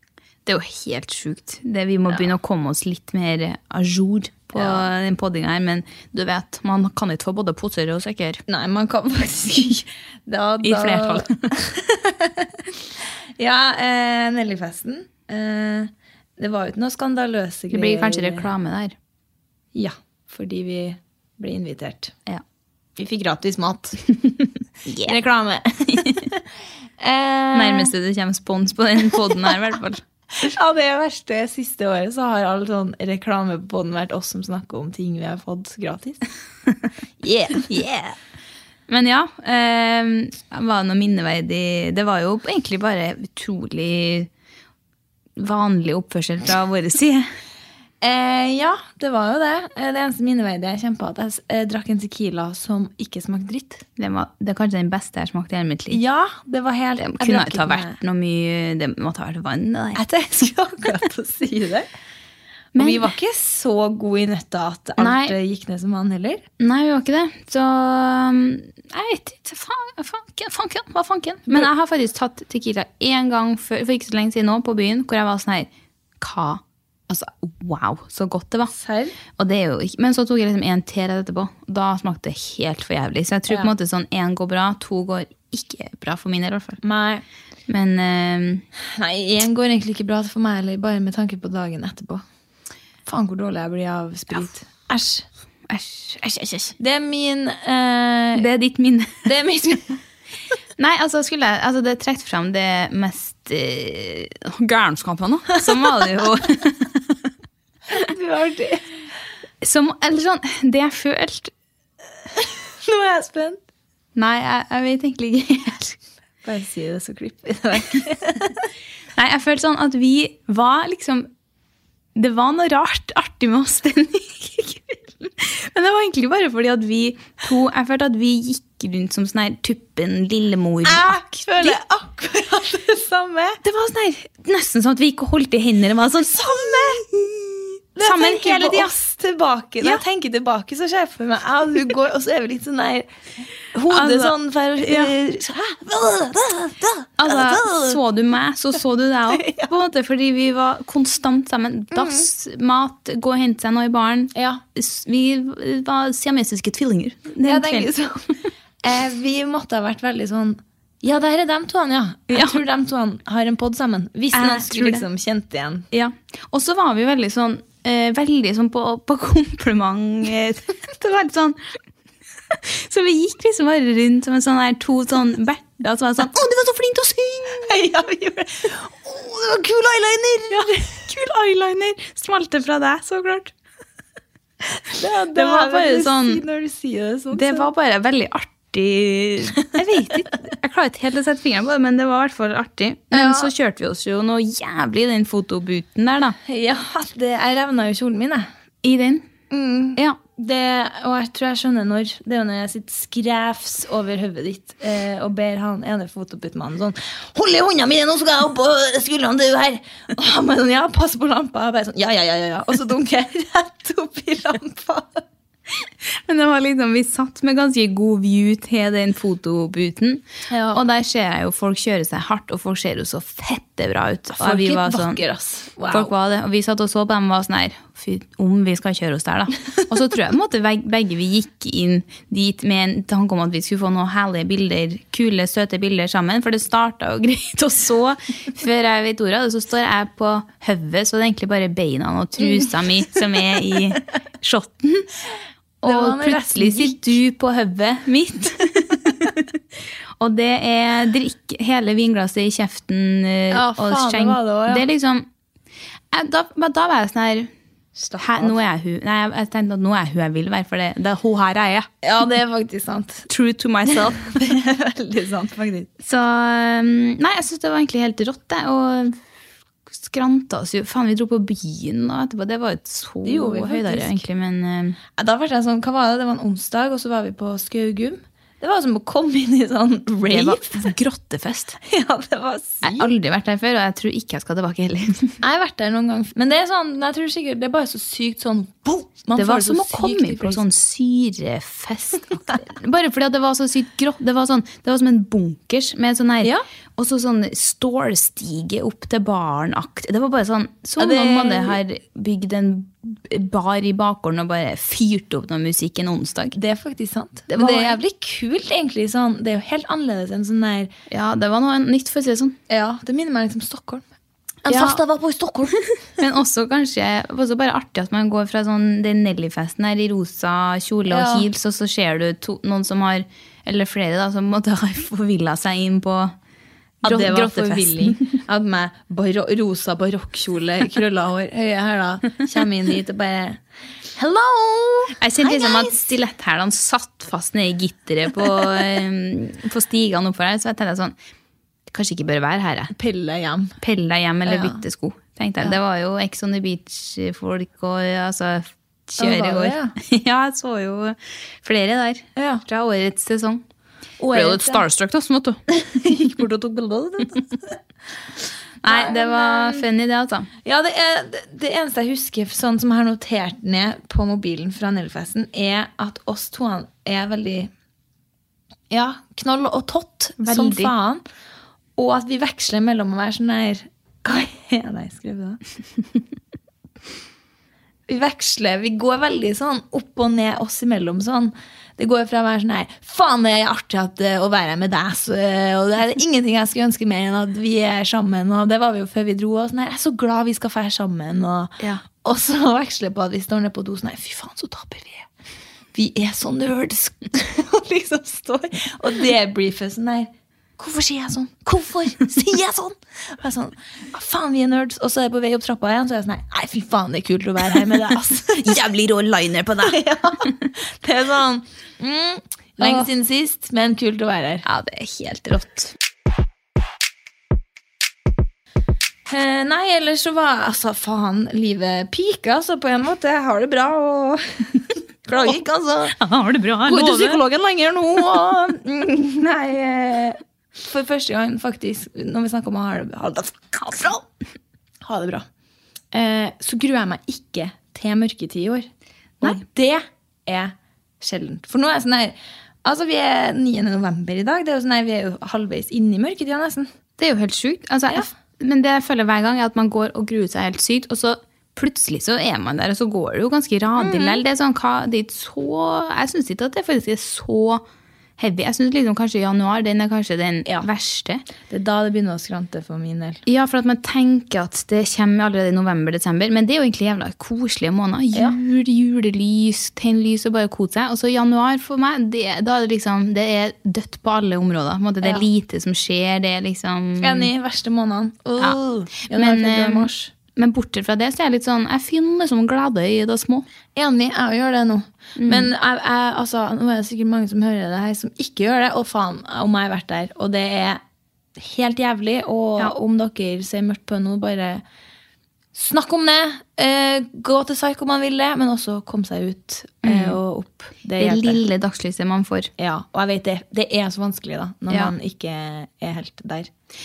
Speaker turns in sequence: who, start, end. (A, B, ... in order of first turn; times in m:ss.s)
0:00.4-0:08.4 A
0:04.5-0:04.9 B
0:08.5-0:12.5 B
0:10.6-0:11.4 A
0:13.4-0:18.5 B
0:17.7-0:18.9 A
0:19.7-0:22.2 B
0:23.0-0:24.2 B
0:24.8-0:25.2 A
0:25.0-0:26.4 B
0:27.0-0:27.9 B
0:27.5-0:30.0 A
0:30.4-0:36.2 B
0:37.2-0:38.1 B
0:38.9-0:44.3 A
0:45.4-0:47.3 A
0:48.0-0:53.8 B
0:54.0-0:56.0 A
0:55.9-0:58.0 B
0:57.0-1:00.0 A
1:00.0-1:01.9 B
1:02.7-1:03.1 A
1:02.8-1:06.4 B
1:05.0-1:05.4 A
1:06.6-1:15.7 A
1:16.2-1:18.7 A
1:18.7-1:19.2 B
1:19.4-1:26.8 A
1:26.8-1:27.2 B
1:27.7-1:28.6 A
1:28.9-1:32.2 B
1:33.0-1:35.2 B
1:35.7-1:36.7 A
1:36.8-1:38.5 B
1:38.4-1:39.2 A
1:39.2-1:40.0 B
1:40.8-1:47.0 A
1:47.9-1:48.8 B
1:49.6-1:51.5 A
1:52.8-1:53.6 B
1:54.2-1:56.0 A
1:56.4-1:58.6 B
1:59.2-2:01.3 A
2:02.1-2:11.8 A
2:10.8-2:13.6 B
2:13.6-2:18.9 A
2:16.3-2:17.0 B
2:18.0-2:23.1 B
2:23.7-2:28.0 B
2:23.9-2:25.1 A
2:27.2-2:37.9 A
2:29.3-2:29.7 B
2:31.9-2:32.3 B
2:34.3-2:34.6 B
2:37.4-2:38.3 B
2:38.8-2:45.8 B
2:42.3-2:42.6 A
2:44.3-2:45.0 A
2:45.9-2:51.6 A
2:52.7-2:57.7 A
2:57.6-3:00.9 B
3:00.5-3:03.5 A
3:04.9-3:07.7 B
3:05.3-3:06.4 A
3:07.3-3:16.4 A
3:13.1-3:13.5 B
3:16.5-3:18.5 B
3:18.8-3:19.3 A
3:19.5-3:35.2 B
3:36.2-3:45.2 A
3:40.5-3:40.8 B
3:44.4-3:46.1 B
3:45.9-4:05.1 A
4:05.8-4:07.2 B
4:05.8-4:09.4 A
4:10.2-4:15.3 A
4:13.5-4:14.8 B
4:16.1-4:17.5 A
4:18.0-4:18.6 B
4:18.2-4:21.9 A
4:22.0-4:23.3 B
4:23.3-4:24.3 A
4:24.1-4:25.9 B
4:26.0-4:29.2 A
4:30.0-4:35.0 A
4:33.2-4:34.2 B
4:35.2-4:40.9 B
4:40.3-4:41.8 A
4:41.8-4:43.1 B
4:42.8-4:45.4 A
4:45.4-4:50.6 B
4:49.4-5:06.6 A
5:01.0-5:01.8 B
5:06.6-5:10.9 B
5:07.5-5:08.0 A
5:11.1-5:12.6 A
5:12.7-5:14.0 B
5:14.7-5:15.8 B
5:14.7-5:15.0 A
5:16.2-5:26.3 A
5:21.1-5:21.5 B
5:27.0-5:33.6 B
5:27.0-5:28.2 A
5:34.1-5:35.9 B
5:35.2-5:41.1 A
5:41.9-5:42.9 A
5:43.0-5:43.7 B
5:43.8-5:53.6 A
5:44.4-5:44.8 B
5:49.2-5:49.9 B
5:52.4-5:52.6 B
5:54.2-5:54.8 B
5:54.3-5:55.6 A
5:55.9-5:57.4 B
5:58.8-6:00.5 A
5:58.8-5:59.8 B
6:00.6-6:07.7 B
6:08.9-6:11.2 B
6:10.4-6:10.9 A
6:12.0-6:15.6 B
6:18.1-6:35.2 B
6:35.9-6:48.8 B
6:48.6-6:50.0 A
6:49.8-6:54.6 B
6:52.8-6:53.1 A
6:54.6-6:55.9 A
6:59.3-7:06.2 B
7:06.1-7:07.4 A
7:06.8-7:14.2 B
7:13.9-7:14.2 A
7:15.0-7:15.4 B
7:16.1-7:18.9 B
7:19.4-7:26.9 B
7:27.2-7:37.8 A
7:34.0-7:34.4 B
7:38.4-7:41.4 A
7:41.7-7:43.4 B
7:43.4-7:57.5 A
7:57.2-8:00.3 B
7:58.6-8:03.6 A
8:03.9-8:11.0 B
8:05.4-8:05.7 A
8:11.6-8:14.8 B
8:15.7-8:21.6 B
8:20.0-8:20.4 A
8:21.2-8:22.7 A
8:22.8-8:26.7 B